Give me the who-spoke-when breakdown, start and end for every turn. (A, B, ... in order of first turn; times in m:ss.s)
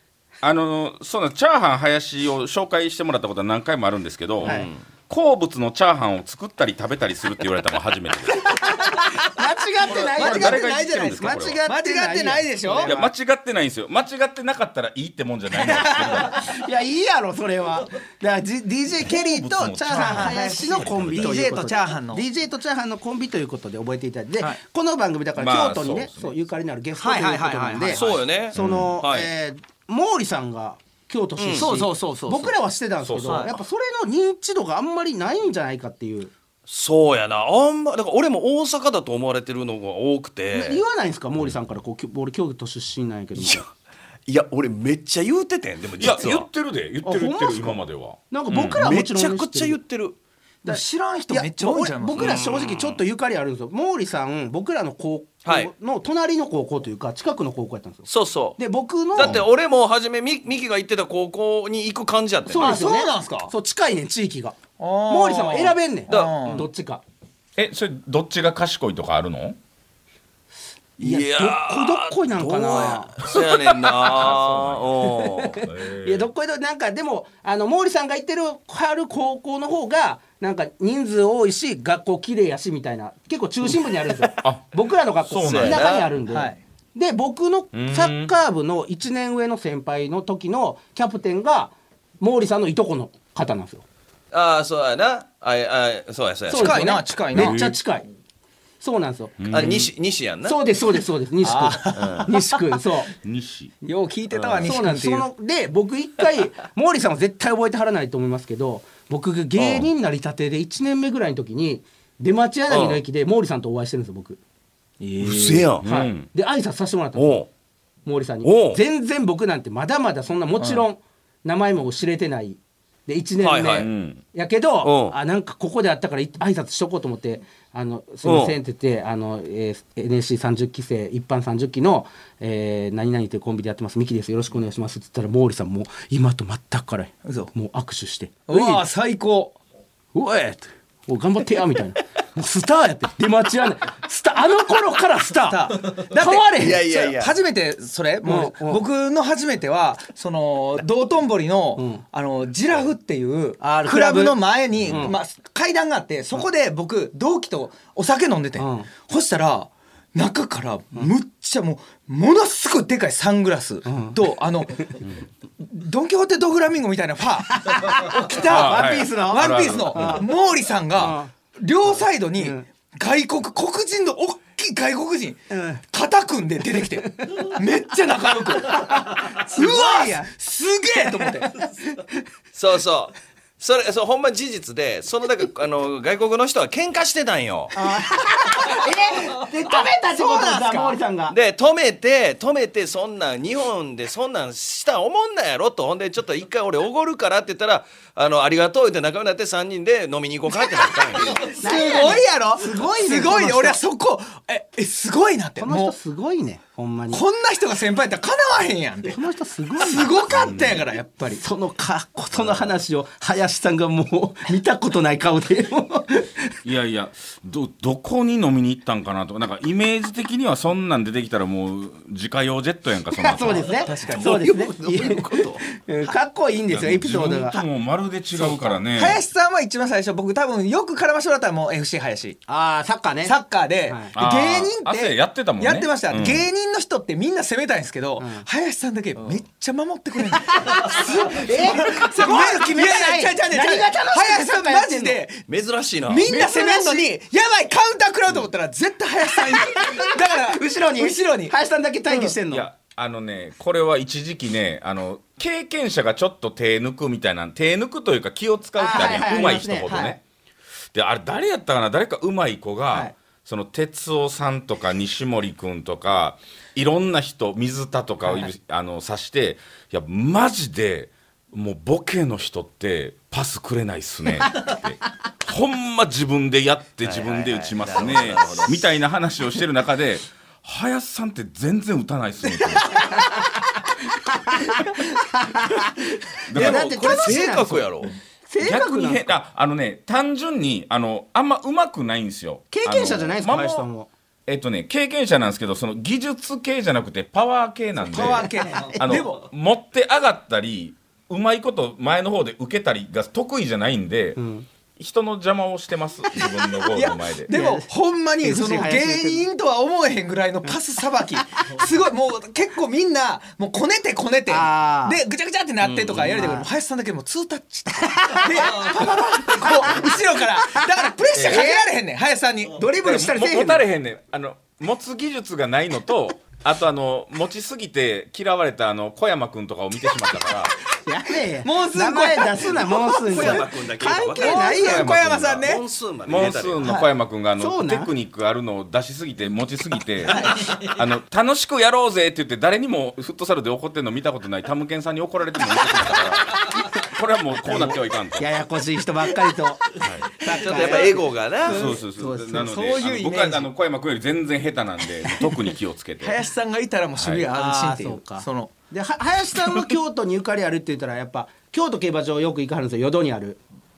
0:00.4-0:08.8 A
0:04.4-0:04.7 B
0:04.4-0:04.8 C
0:08.5-0:13.1 B
0:09.9-0:12.9 D
0:10.2-0:11.6 A
0:12.8-0:16.5 A
0:15.6-0:36.3 B
0:19.1-0:21.5 A
0:19.8-0:22.2 D
0:25.4-0:26.3 A
0:27.0-0:28.2 D
0:28.0-0:29.3 C
0:28.6-0:28.9 A
0:31.4-0:31.7 C
0:31.6-0:32.6 D
0:33.0-0:33.5 A
0:33.2-0:33.5 D
0:36.7-0:40.8 C
0:40.5-0:43.6 B
0:43.4-0:43.7 C
0:44.3-0:46.5 C
0:46.0-0:48.8 A
0:47.0-0:49.8 B
0:48.7-0:50.2 C
0:50.6-0:59.4 B
0:50.7-0:52.4 D
0:52.2-0:53.0 C
0:55.4-0:55.7 C
0:58.1-0:58.6 C
0:59.2-1:02.8 C
1:02.5-1:07.0 B
1:02.6-1:03.5 D
1:04.8-1:06.7 D
1:06.1-1:06.5 C
1:07.6-1:09.6 A
1:11.0-1:13.4 B
1:11.0-1:15.6 C
1:14.0-1:14.9 A
1:15.2-1:33.8 B
1:15.6-1:16.3 A
1:25.3-1:25.8 A
1:25.4-1:26.1 C
1:26.3-1:26.6 D
1:27.7-1:28.3 A
1:34.3-1:36.8 C
1:36.5-1:38.1 B
1:36.5-1:37.6 D
1:37.4-1:37.8 A
1:38.8-1:39.8 B
1:39.4-1:39.9 A
1:39.5-1:40.6 C
1:40.4-1:43.1 B
1:41.4-1:42.6 D
1:42.0-1:42.3 C
1:43.2-1:43.7 A
1:43.8-1:45.3 D
1:44.3-1:44.7 C
1:44.6-1:54.4 B
1:49.6-1:49.8 C
1:52.7-1:53.0 C
1:55.0-1:55.7 D
1:55.2-1:55.9 C
1:55.8-1:56.3 A
1:55.8-1:57.4 B
1:57.2-1:57.5 C
1:58.1-2:18.9 B
1:58.4-1:58.8 C
2:00.6-2:00.8 D
2:03.4-2:03.9 C
2:03.8-2:04.2 A
2:04.8-2:05.2 C
2:08.2-2:08.6 C
2:17.2-2:17.5 D
2:18.5-2:19.6 D
2:20.1-2:26.8 B
2:25.3-2:44.8 D
2:26.6-2:27.4 C
2:28.2-2:28.8 B
2:31.8-2:32.0 B
2:33.6-2:35.2 B
2:34.8-2:35.1 A
2:38.6-2:38.9 B
2:43.8-2:44.2 B
2:45.6-3:01.5 D
2:47.6-2:50.2 B
2:48.5-2:50.2 A
2:50.9-2:51.3 B
2:52.0-2:52.6 B
2:55.5-2:55.8 B
2:56.8-2:57.5 B
2:58.6-3:00.3 B
3:01.0-3:02.1 B
3:02.5-3:07.7 C
3:07.7-3:11.4 B
3:08.7-3:11.0 D
3:11.3-3:21.5 C
3:21.2-3:26.0 D
3:21.6-3:23.8 B
3:25.6-3:27.2 B
3:27.1-3:29.2 D
3:29.1-3:30.2 B
3:29.8-3:31.4 D
3:30.3-3:30.8 A
3:31.4-3:36.5 B
3:32.4-3:32.7 A
3:36.6-3:43.9 A
3:43.1-3:47.6 B
3:43.8-3:44.7 D
3:44.2-3:45.6 C
3:46.7-3:49.2 A
3:48.4-3:52.4 D
3:52.5-3:54.1 B
3:53.2-4:05.4 D
3:54.2-3:56.4 A
3:58.2-3:58.5 B
4:00.5-4:05.2 B
4:05.5-4:06.3 C
4:06.1-4:11.5 D
4:06.3-4:07.1 B
4:09.4-4:12.7 B
4:12.5-4:20.2 A
4:18.8-4:20.2 B
4:19.9-4:20.2 D
4:20.9-4:43.3 A
4:37.0-4:38.8 C
4:44.3-4:45.9 B
4:46.5-4:47.4 A
4:46.5-4:49.4 B
4:46.6-4:48.1 C
4:48.6-4:53.9 A
4:52.7-4:54.1 B
4:54.5-5:04.4 A
4:58.1-4:59.4 D
4:58.1-4:59.2 B
5:04.4-5:04.7 B
5:05.0-5:07.5 A
5:06.3-5:07.9 B
5:06.9-5:22.9 D
5:08.4-5:09.5 B
5:14.5-5:15.2 B
5:15.8-5:16.4 A
5:16.1-5:16.7 B
5:18.1-5:21.9 B
5:22.7-5:23.9 B
5:23.0-5:30.8 A
5:31.0-5:35.5 B
5:31.6-5:33.6 D
5:33.1-5:35.0 C
5:34.4-5:35.8 D
5:35.0-5:35.6 A
5:35.6-5:36.8 C
5:36.3-5:48.5 A
5:36.8-5:37.1 D
5:37.6-5:38.1 B
5:40.3-5:40.8 D
5:47.6-5:53.0 B
5:50.0-5:50.3 A
5:50.5-5:52.0 C
5:51.7-5:56.4 A
5:52.6-5:53.7 D
5:56.2-5:58.7 D
5:57.2-5:57.5 A
5:57.5-6:03.6 B